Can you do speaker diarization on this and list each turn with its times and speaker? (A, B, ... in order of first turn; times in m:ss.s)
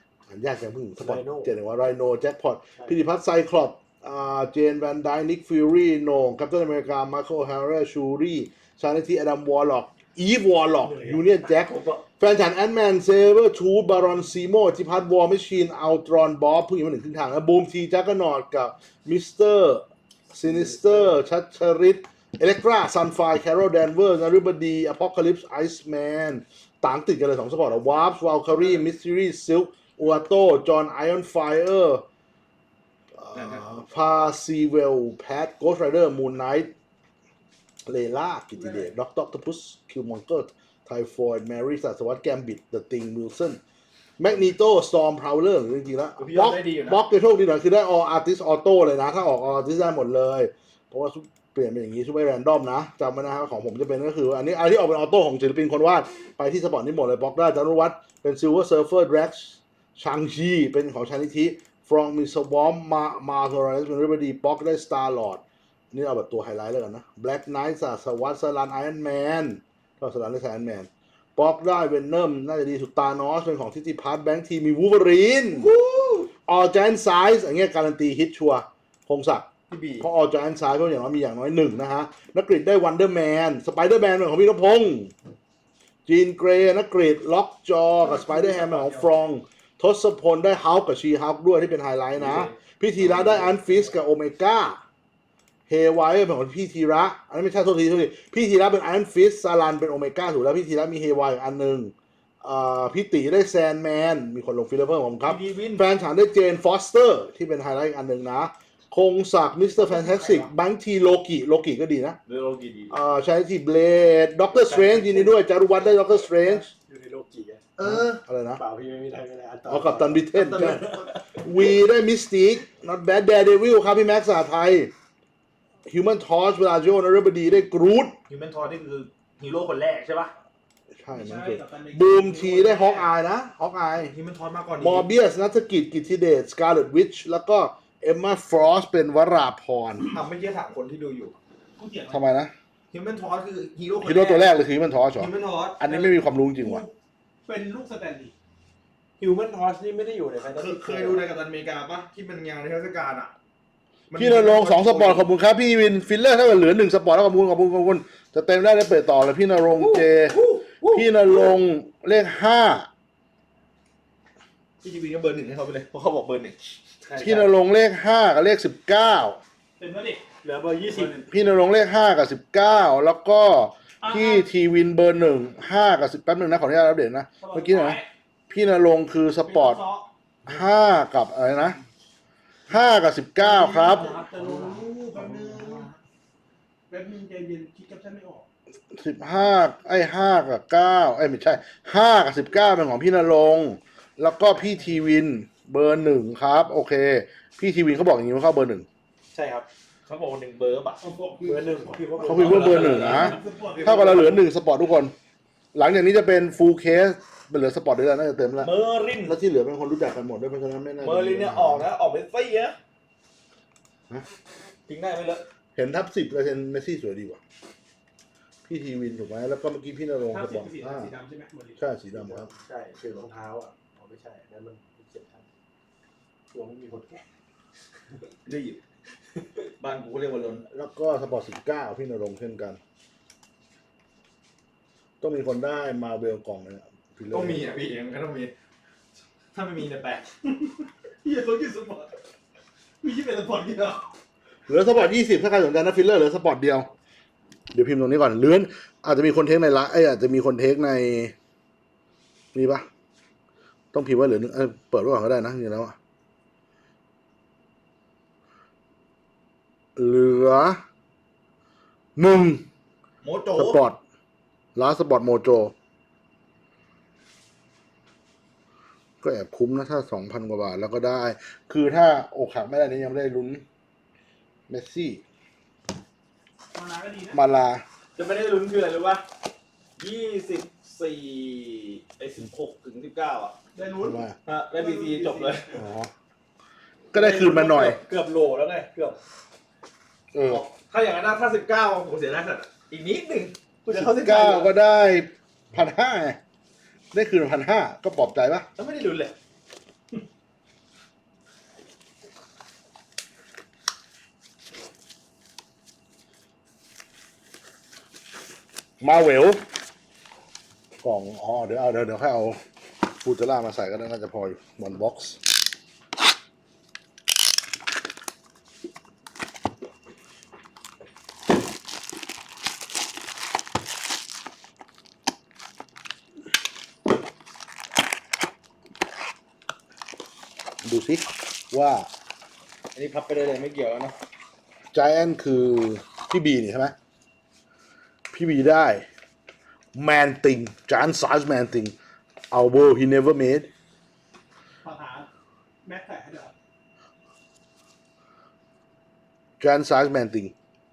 0:00.3-0:32.0 A
0:01.0-0:01.5 B
0:10.9-0:11.2 B
0:11.5-0:12.0 C
0:20.4-0:21.0 B
0:33.2-0:36.7 A
0:33.3-0:33.7 C
0:37.8-0:43.6 A
0:44.2-1:15.7 A
0:46.2-0:47.0 C
1:15.5-1:16.3 C
1:16.5-1:19.5 A
1:19.7-1:20.1 C
1:20.0-1:25.1 A
1:26.1-1:34.8 A
1:28.0-1:29.2 C
1:32.2-1:33.9 C
1:35.7-1:52.2 A
1:45.2-1:45.9 C
1:49.8-1:50.5 C
1:52.3-1:53.0 C
1:52.9-1:56.7 A
1:54.6-1:55.4 B
1:56.3-1:57.7 B
1:57.8-1:58.2 C
1:57.8-1:58.6 A
1:58.6-2:01.2 B
1:59.7-2:04.9 A
2:00.3-2:01.6 C
2:05.9-2:08.2 A
2:08.3-2:10.3 C
2:10.9-2:14.1 A
2:11.2-2:13.1 D
2:14.0-2:15.1 C
2:14.8-2:20.2 A
2:20.1-2:21.4 C
2:21.8-2:22.2 D
2:22.1-2:22.5 A
2:22.9-2:24.6 C
2:24.0-2:26.9 A
2:25.2-2:26.1 C
2:26.6-2:26.9 D
2:27.4-2:28.3 D
2:29.2-2:31.3 B
2:30.5-2:33.3 C
2:34.1-2:35.3 C
2:34.2-2:40.4 A
2:39.7-2:41.3 C
2:40.9-2:42.9 A
2:44.8-2:46.8 C
2:47.0-2:47.6 B
2:47.2-2:49.4 A
2:49.8-2:50.2 D
2:50.4-2:51.1 B
2:50.9-2:51.3 C
2:51.3-2:59.8 A
2:54.0-2:54.5 D
2:57.4-2:58.1 D
2:59.5-3:00.1 D
3:00.5-3:01.8 A
3:02.7-3:04.1 A
3:03.4-3:06.0 D
3:03.8-3:04.2 C
3:04.4-3:04.8 B
3:06.9-3:08.4 D
3:08.9-3:18.9 A
3:19.3-3:19.7 B
3:20.1-3:21.0 C
3:21.0-3:22.0 D
3:21.4-3:23.1 B
3:22.2-3:25.1 A
3:22.3-3:24.4 C
3:22.9-3:24.3 D
3:25.7-3:31.9 A
3:28.6-3:29.4 C
3:31.0-3:32.8 C
3:34.9-3:35.4 C
3:35.8-3:37.4 A
3:38.7-3:41.1 A
3:40.3-3:41.8 D
3:41.8-3:42.5 A
3:42.1-3:45.5 B
3:46.5-3:47.2 B
3:48.5-3:48.8 C
3:49.8-3:50.7 C
3:50.7-3:52.8 A
3:55.2-3:57.6 A
3:57.3-3:58.5 C
3:59.5-4:00.5 C
4:01.2-4:02.1 C
4:01.5-4:01.8 D
4:03.0-4:04.0 C
4:03.1-4:03.8 D
4:04.7-4:06.9 A
4:07.7-4:11.3 A
4:12.5-4:12.9 A
4:13.9-4:16.0 A
4:20.0-4:20.8 A
4:22.2-4:22.6 A
4:23.2-4:23.8 C
4:23.6-4:24.0 A
4:24.8-4:25.7 A
4:29.2-4:33.6 A
4:34.7-4:35.2 A
4:36.7-4:37.4 D
4:37.3-4:37.8 A
4:38.2-4:39.2 C
4:40.0-4:43.6 C
4:43.8-4:44.2 D
4:44.0-4:44.4 A
4:44.5-4:45.8 C
4:44.7-4:45.6 D
4:45.7-4:46.1 A
4:47.1-4:48.0 A
4:47.1-4:49.2 C
4:50.3-4:50.6 A
4:50.5-4:54.7 C
4:53.9-4:56.4 A
4:57.1-4:58.7 A
4:58.8-4:59.4 C
5:09.0-5:09.6 A
5:11.0-5:15.4 A
5:30.8-5:32.1 A
5:33.0-5:34.2 C
5:34.9-5:37.0 A
5:38.3-5:39.1 A
5:39.9-5:42.0 A
5:42.5-5:43.7 A
5:44.8-5:45.3 D
5:45.8-5:46.5 D
5:49.6-5:50.5 A